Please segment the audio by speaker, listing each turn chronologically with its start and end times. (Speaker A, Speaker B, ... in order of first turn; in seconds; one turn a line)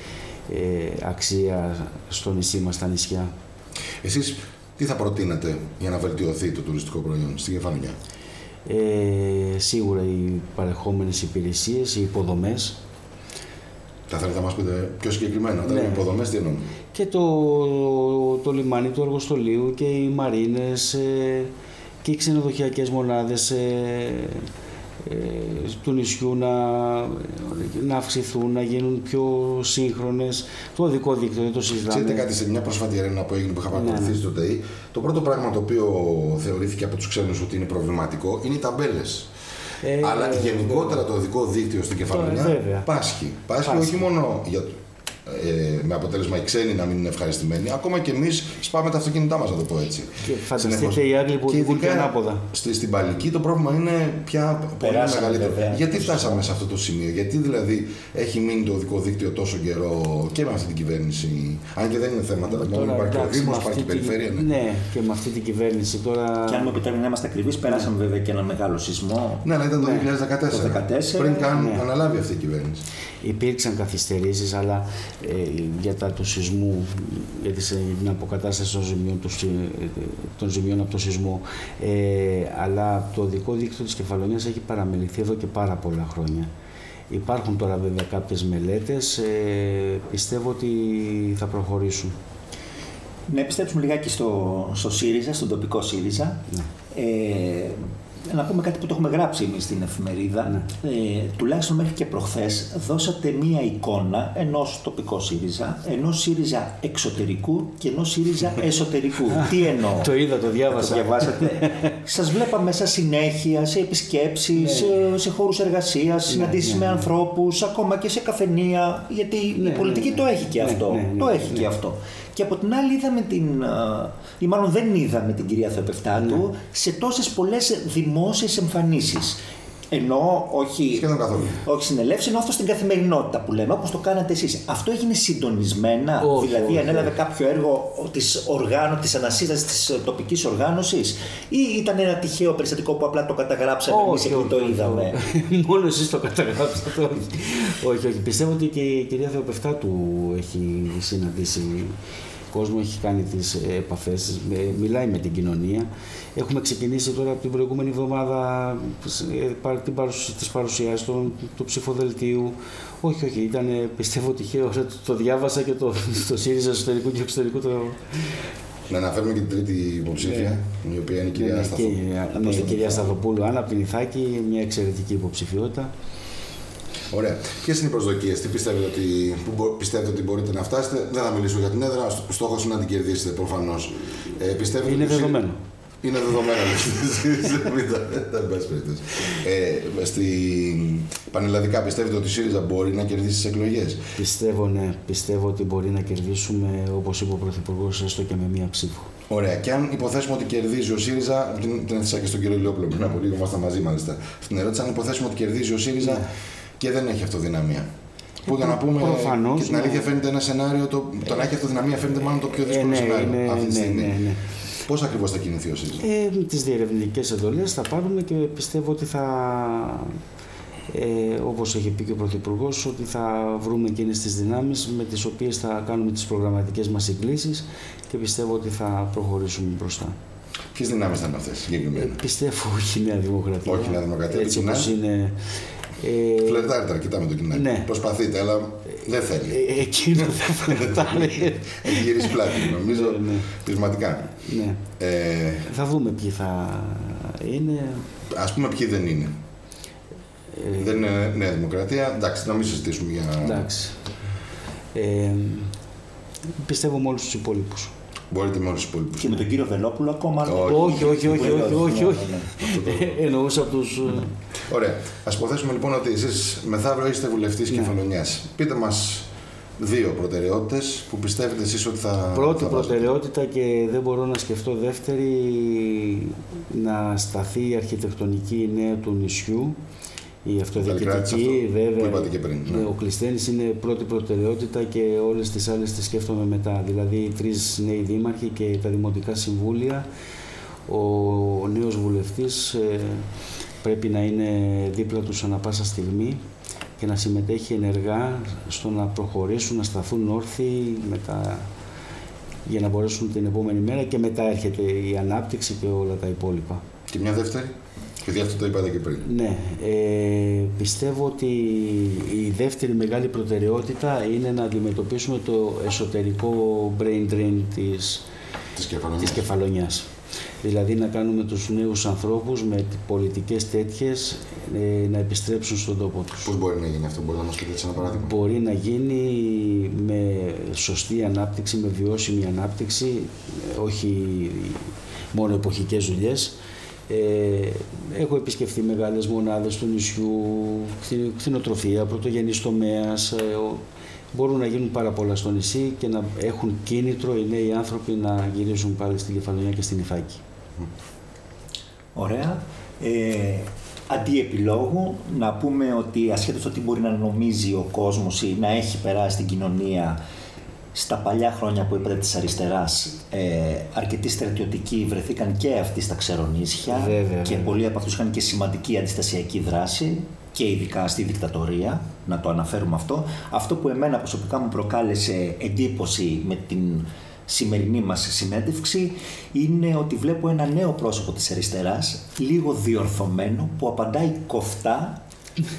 Speaker A: 0.5-3.3
Speaker B: 4.0-8.0
Speaker A: 8.7-12.8
Speaker B: 14.1-16.7
Speaker A: 15.7-16.1
Speaker A: 16.9-21.5
Speaker A: 22.0-24.5
Speaker A: 25.0-32.3
Speaker B: 31.9-39.3
Speaker A: 33.7-34.2
Speaker A: 39.8-41.0
Speaker B: 40.0-64.5
Speaker A: 42.0-42.9
Speaker A: 43.6-44.1
Speaker A: 50.2-52.5
Speaker C: 54.8-56.4
Speaker A: 62.4-66.8
Speaker C: 66.5-69.5
Speaker B: 69.4-72.8
Speaker A: 69.8-70.1
Speaker C: 70.5-71.5
Speaker A: 71.5-71.8
Speaker A: 73.2-86.5
Speaker A: 87.1-92.1
Speaker C: 93.3-110.2
Speaker A: 109.3-111.9
Speaker C: 110.7-129.4
Speaker A: 114.5-115.0
Speaker A: 116.3-117.1
Speaker A: 119.6-121.7
Speaker A: 126.2-126.4
Speaker C: 129.9-145.2
Speaker B: 130.9-131.6
Speaker A: 136.2-137.1
Speaker A: 143.9-151.9
Speaker A: 152.5-168.3
Speaker B: 168.9-173.1
Speaker A: 170.2-170.5
Speaker A: 171.3-175.9
Speaker B: 177.1-185.4
Speaker A: 184.8-185.6
Speaker B: 186.0-194.0
Speaker A: 194.1-199.1
Speaker B: 199.3-206.2
Speaker A: 206.0-206.3
Speaker B: 206.8-207.9
Speaker A: 208.4-210.1
Speaker B: 208.4-214.2
Speaker A: 212.5-214.4
Speaker B: 214.8-216.0
Speaker A: 216.0-220.2
Speaker A: 220.9-230.2
Speaker B: 230.7-232.2
Speaker A: 231.9-235.4
Speaker B: 233.7-234.9
Speaker A: 236.0-236.8
Speaker B: 236.4-244.4
Speaker A: 237.5-237.9
Speaker A: 239.5-243.5
Speaker A: 244.4-244.8
Speaker B: 245.0-245.7
Speaker A: 245.7-248.1
Speaker B: 248.3-249.3
Speaker A: 250.6-251.1
Speaker B: 250.8-253.7
Speaker A: 253.4-254.0
Speaker A: 254.9-255.7
Speaker A: 256.6-257.9
Speaker B: 258.3-259.4
Speaker C: 259.2-262.6
Speaker B: 260.4-261.5
Speaker A: 260.6-264.3
Speaker B: 262.7-263.1
Speaker B: 264.7-269.3
Speaker A: 267.7-267.9
Speaker B: 269.8-273.1
Speaker A: 272.3-279.8
Speaker A: 280.4-290.1
Speaker B: 280.8-282.9
Speaker A: 290.9-293.3
Speaker A: 293.8-296.4
Speaker A: 297.0-301.7
Speaker A: 302.6-306.8
Speaker B: 307.1-309.3
Speaker A: 309.2-318.2
Speaker B: 318.8-319.4
Speaker A: 319.2-320.1
Speaker A: 320.6-326.5
Speaker B: 326.4-328.3
Speaker A: 328.0-336.5
Speaker A: 337.1-343.8
Speaker A: 344.3-350.4
Speaker C: 352.1-360.2
Speaker C: 360.9-385.2
Speaker A: 366.9-367.7